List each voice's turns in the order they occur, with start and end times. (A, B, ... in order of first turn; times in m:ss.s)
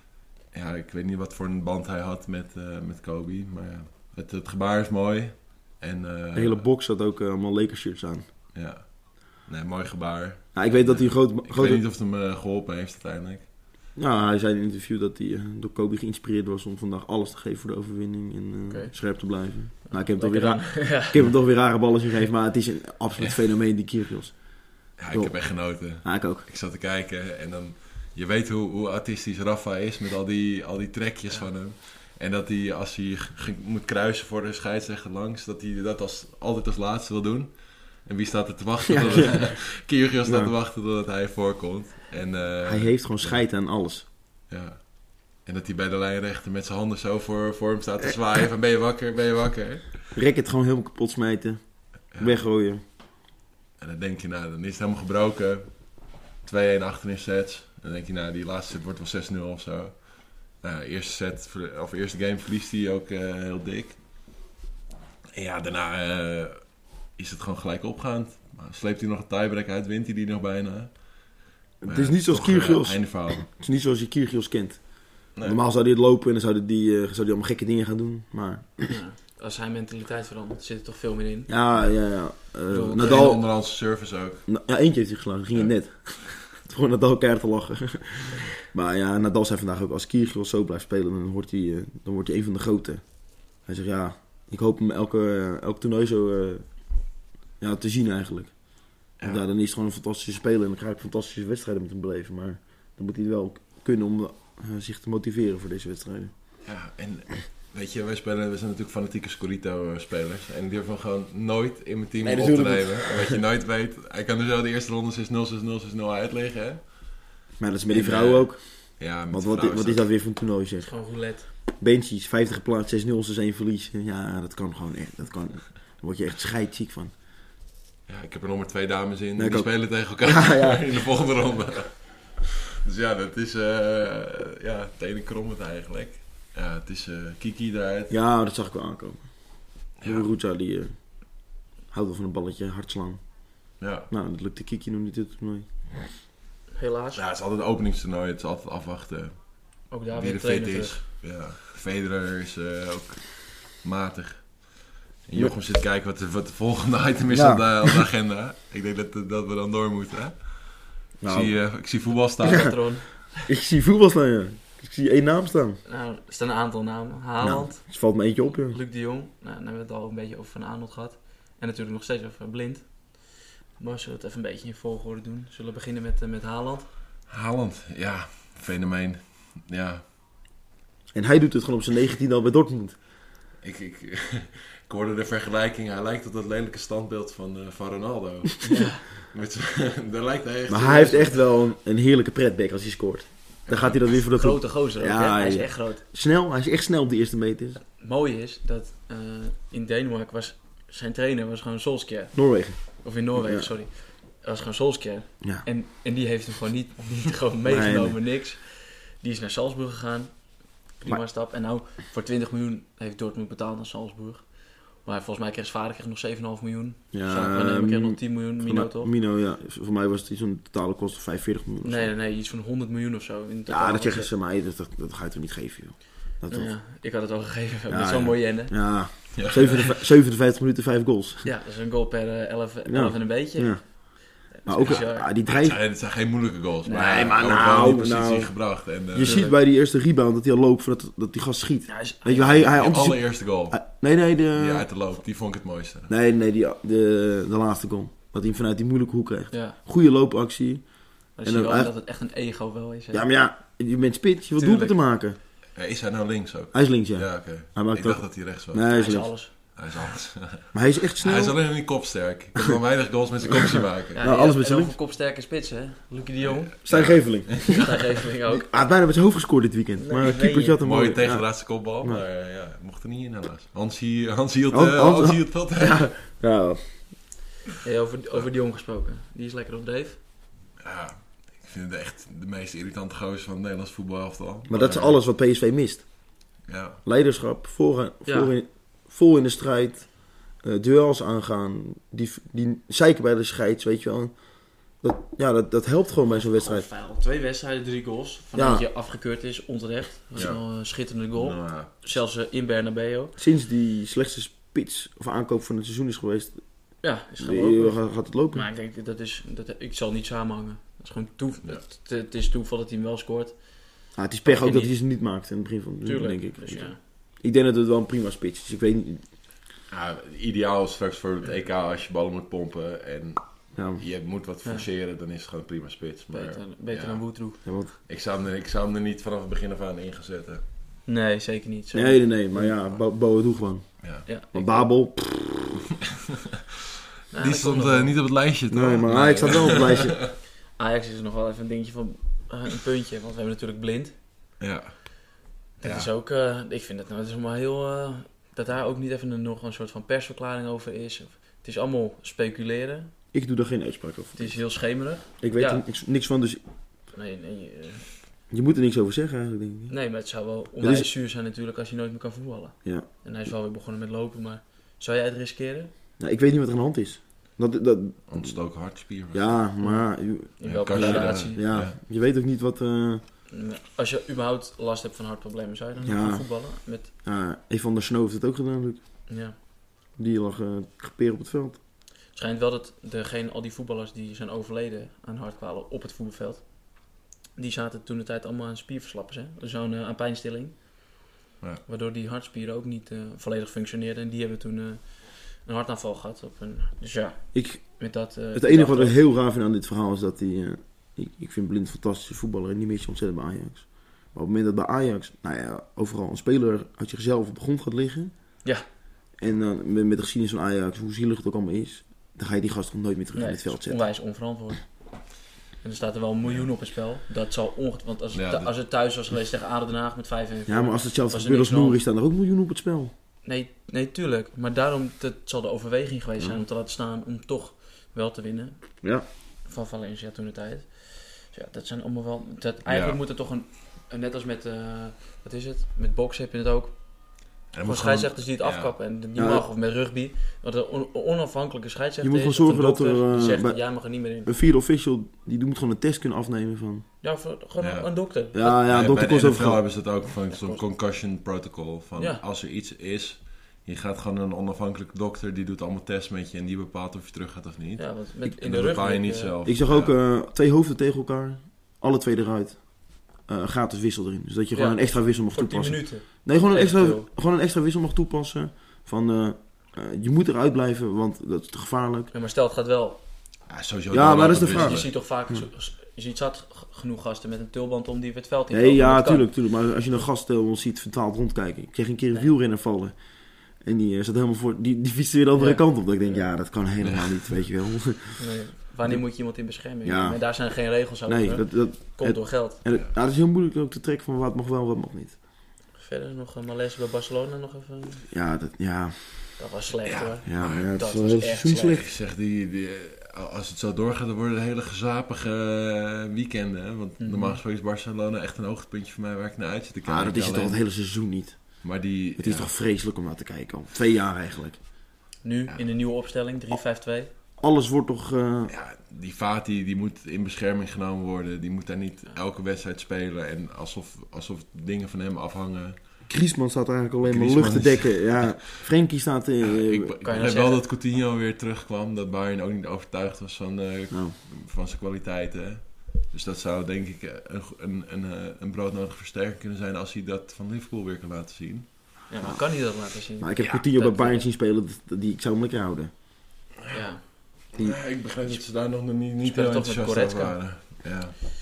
0:00.5-0:06.6 A
0:06.3-0:08.2 B
0:08.5-0:13.4 A
0:10.5-0:11.8 B
0:14.0-0:26.4 B
0:18.7-0:19.3 C
0:19.8-0:21.3 C
0:25.0-0:43.4 A
0:38.9-0:39.6 B
0:40.2-0:40.5 B
0:42.6-0:44.0 B
0:44.5-0:50.1 A
0:50.1-0:51.6 B
0:52.1-0:52.8 B
0:53.8-0:55.7 A
0:56.4-1:04.0 A
1:05.3-1:13.5 A
1:11.8-1:18.9 B
1:18.9-1:21.5 C
1:21.5-1:23.6 B
1:22.7-1:24.4 A
1:24.5-1:33.0 B
1:25.5-1:26.3 A
1:33.5-1:36.7 B
1:37.6-1:38.6 B
1:39.2-1:46.3 B
1:46.6-1:57.2 A
1:52.2-1:53.4 B
1:57.6-2:00.9 B
1:57.9-2:00.1 A
2:00.8-2:01.5 C
2:01.8-2:07.1 B
2:08.1-2:18.1 A
2:09.4-2:10.8 B
2:18.1-2:19.2 B
2:20.0-2:20.9 B
2:21.9-2:23.2 B
2:23.8-2:24.1 A
2:24.1-2:25.7 B
2:26.8-2:27.2 C
2:27.1-2:29.4 A
2:29.9-2:31.0 C
2:30.1-2:42.8 A
2:37.3-2:38.0 B
2:41.2-2:41.6 B
2:42.4-2:43.5 C
2:42.5-2:42.7 B
2:43.4-2:45.8 B
2:45.8-2:47.8 C
2:47.4-2:48.8 B
2:48.7-2:56.9 C
2:57.3-3:00.0 A
3:01.1-3:03.0 B
3:03.6-3:11.4 A
3:08.6-3:09.0 C
3:10.7-3:17.8 B
3:13.7-3:14.1 A
3:14.3-3:16.0 C
3:17.9-3:39.1 C
3:22.3-3:23.7 B
3:27.6-3:28.2 B
3:37.1-3:42.1 B
3:41.8-3:44.3 C
3:43.7-3:46.7 B
3:46.5-3:49.3 C
3:47.9-3:51.5 B
3:49.4-3:49.8 A
3:51.4-3:55.3 C
3:52.8-3:55.8 B
3:54.8-3:59.4 A
3:56.8-3:57.3 C
3:56.9-4:04.9 B
3:59.2-3:59.6 C
4:01.9-4:02.6 C
4:02.5-4:04.0 A
4:04.5-4:06.1 A
4:06.1-4:10.9 B
4:09.5-4:09.8 C
4:11.4-4:13.2 C
4:11.4-4:11.9 B
4:13.1-4:15.4 B
4:14.6-4:15.0 C
4:15.7-4:18.9 A
4:16.7-4:19.3 B
4:18.8-4:19.5 C
4:19.7-4:24.2 A
4:20.7-4:21.8 B
4:23.5-4:25.0 B
4:24.2-4:26.7 C
4:26.4-4:27.8 A
4:26.8-4:28.0 B
4:27.5-4:28.6 C
4:28.5-4:32.2 B
4:30.0-4:30.8 C
4:30.8-4:36.1 A
4:34.7-4:37.1 B
4:37.8-4:40.2 C
4:40.8-4:45.2 A
4:44.7-4:46.0 B
4:46.7-4:47.0 A
4:47.0-4:54.3 B
4:48.2-4:48.5 C
4:54.9-4:56.9 B
4:56.3-5:03.4 C
4:58.5-4:58.8 B
5:00.4-5:00.6 A
5:01.3-5:02.2 A
5:03.4-5:06.6 B
5:07.0-5:14.9 C
5:07.4-5:08.6 B
5:14.1-5:19.2 B
5:16.0-5:17.0 C
5:19.9-5:27.3 A
5:23.7-5:24.0 B
5:26.3-5:27.6 C
5:27.6-5:27.9 B
5:28.1-5:30.6 A
5:31.0-5:32.7 C
5:31.9-5:34.0 B
5:34.0-5:34.2 A
5:34.2-5:34.9 C
5:34.5-5:35.8 B
5:37.3-5:38.2 C
5:37.4-5:40.3 A
5:38.7-5:40.3 B
5:40.8-5:44.1 C
5:44.6-5:45.0 A
5:45.8-5:53.1 C
5:45.8-5:46.1 A
5:53.3-5:54.6 B
5:54.3-5:55.8 C
5:55.4-5:56.6 B
5:57.1-5:58.0 C
5:58.5-5:59.9 B
5:59.9-6:05.9 C
6:00.8-6:01.1 B
6:06.2-6:08.6 B
6:08.3-6:09.6 A
6:09.3-6:13.2 B
6:09.8-6:11.6 C
6:10.6-6:11.9 A
6:13.5-6:17.1 C
6:16.0-6:19.0 B
6:19.3-6:19.6 C
6:20.2-6:21.8 B
6:22.3-6:31.0 C
6:31.8-6:39.2 C
6:37.5-6:48.3 B
6:49.4-6:54.0 B
6:53.3-6:54.9 C
6:55.8-7:02.0 C
6:58.3-6:58.7 A
7:00.7-7:03.1 B
7:03.4-7:09.0 C
7:09.6-7:17.0 C
7:12.8-7:13.2 A
7:17.7-7:18.9 A
7:17.8-7:24.5 C
7:19.4-7:19.6 B
7:22.2-7:27.0 B
7:27.2-7:28.8 C
7:27.8-7:40.1 A
7:28.5-7:29.9 B
7:32.2-7:32.4 C
7:38.0-7:39.5 C
7:39.6-7:52.3 B
7:44.7-7:47.3 C
7:52.3-7:53.2 C
7:53.7-7:55.1 A
7:54.1-7:55.6 B
7:54.6-7:59.4 C
7:58.7-8:03.2 B
8:03.8-8:08.4 B
8:05.5-8:06.4 C
8:07.0-8:07.6 A
8:08.4-8:12.8 C
8:09.0-8:10.6 B
8:11.2-8:15.4 B
8:16.0-8:18.2 C
8:18.3-8:19.6 B
8:19.6-8:22.0 C
8:20.0-8:20.9 A
8:20.4-8:22.1 B
8:21.9-8:30.8 A
8:27.2-8:27.6 C
8:30.0-8:31.8 B
8:31.8-8:32.7 A
8:32.4-8:34.8 B
8:35.4-8:37.3 C
8:37.6-8:38.7 B
8:38.7-8:46.0 A
8:46.3-8:50.1 B
8:47.2-8:48.9 A
8:49.6-9:02.2 A
8:50.2-8:50.8 C
9:02.3-9:04.4 C
9:03.4-9:06.1 B
9:06.9-9:07.3 C
9:07.7-9:11.3 A
9:09.4-9:10.6 C